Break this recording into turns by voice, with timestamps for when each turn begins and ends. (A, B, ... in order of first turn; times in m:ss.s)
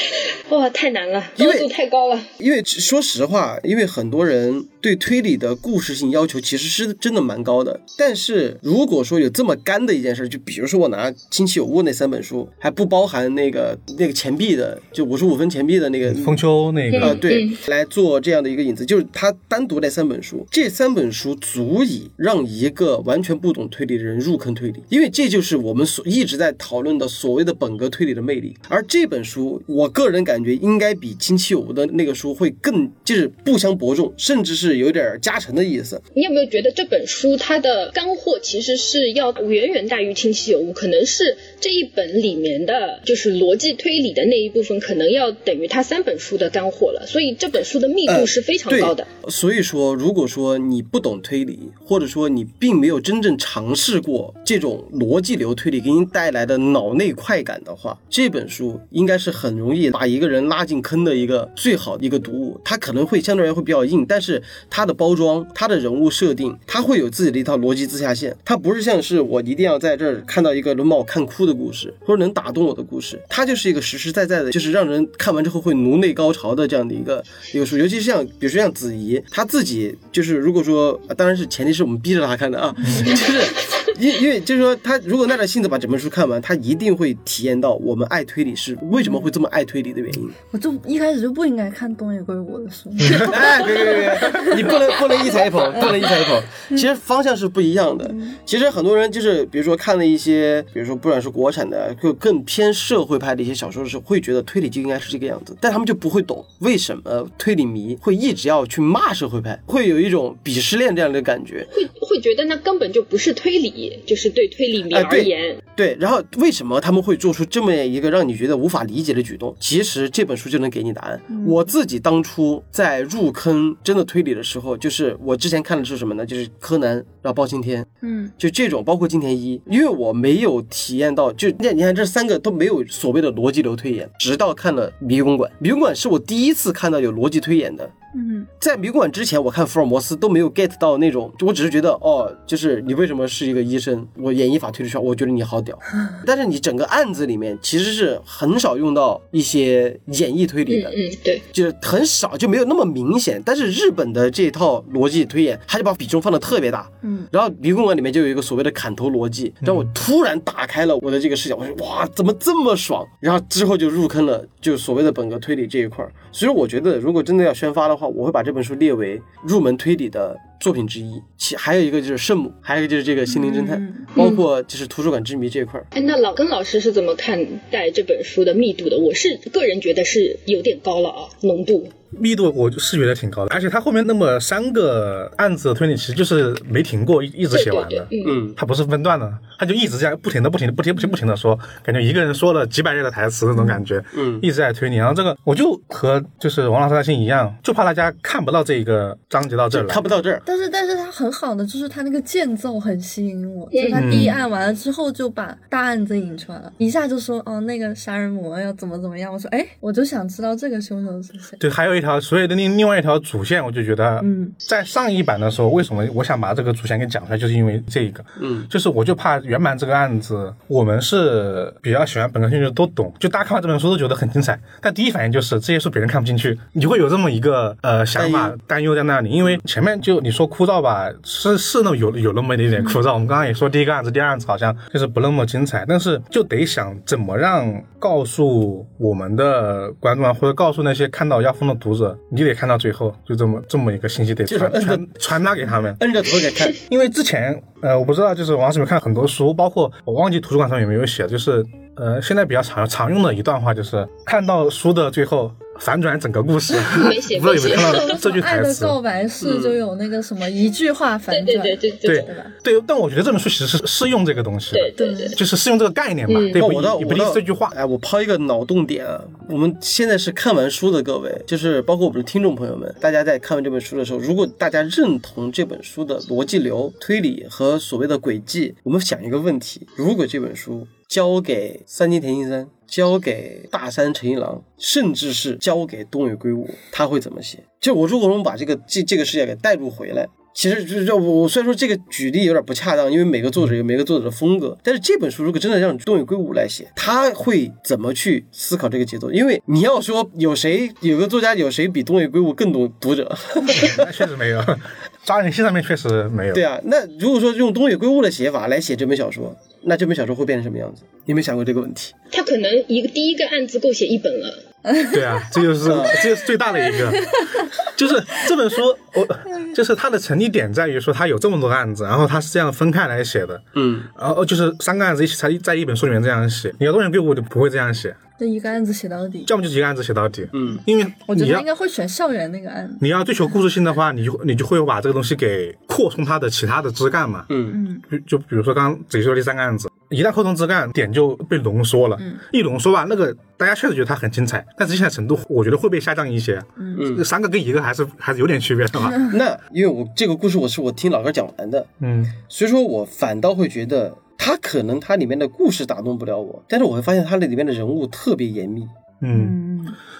0:00.5-0:02.3 A
0:01.4-0:01.7 B
0:02.4-0:16.4 B
0:16.1-0:17.2 C
0:16.9-0:17.6 A
0:16.9-0:36.0 B
0:36.1-0:49.1 A
0:48.1-1:30.3 B
1:22.8-1:23.2 C
1:29.0-1:29.3 D
1:30.5-1:36.8 D
1:33.0-1:33.3 C
1:33.2-1:51.7 B
1:38.1-1:38.3 D
1:51.7-1:55.6 A
1:54.9-2:07.9 B
2:01.3-2:01.7 D
2:08.0-2:08.3 D
2:08.4-2:17.9 B
2:18.1-2:18.5 D
2:18.6-2:31.0 B
2:30.7-2:31.4 A
2:31.5-2:55.9 B
2:37.0-2:37.3 D
2:39.6-2:39.9 C
2:53.3-2:54.1 D
2:54.2-2:54.4 A
2:55.9-3:01.9 A
3:02.1-3:20.1 C
3:07.5-3:08.4 A
3:08.2-3:08.6 B
3:13.5-3:13.8 D
3:14.1-3:14.4 B
3:19.7-3:20.4 B
3:20.4-3:31.6 D
3:23.7-3:24.0 A
3:23.9-3:24.4 C
3:31.6-4:06.0 C
3:34.2-3:34.5 D
3:38.4-3:38.7 B
3:48.2-3:48.6 B
4:04.5-4:05.4 B
4:06.0-4:06.8 B
4:06.8-4:19.0 C
4:16.9-4:18.1 A
4:17.7-4:22.5 D
4:19.4-4:19.8 B
4:21.3-4:22.3 A
4:22.0-4:27.7 C
4:24.7-4:25.4 A
4:25.0-4:25.4 D
4:26.3-4:26.6 A
4:26.6-5:04.0 B
5:03.7-5:06.6 C
5:06.5-5:12.1 B
5:12.3-5:14.6 A
5:14.9-5:15.2 D
5:15.0-5:28.2 C
5:15.8-5:16.4 B
5:16.9-5:17.7 D
5:23.7-5:24.1 B
5:28.4-5:29.5 D
5:29.4-5:31.7 C
5:30.5-5:30.8 B
5:31.3-5:33.0 D
5:33.0-5:49.2 C
5:37.5-5:37.8 B
5:37.7-5:38.0 D
5:47.0-5:47.2 B
5:49.3-5:58.9 B
5:52.0-5:52.4 C
5:59.2-5:59.6 C
5:59.3-6:00.0 D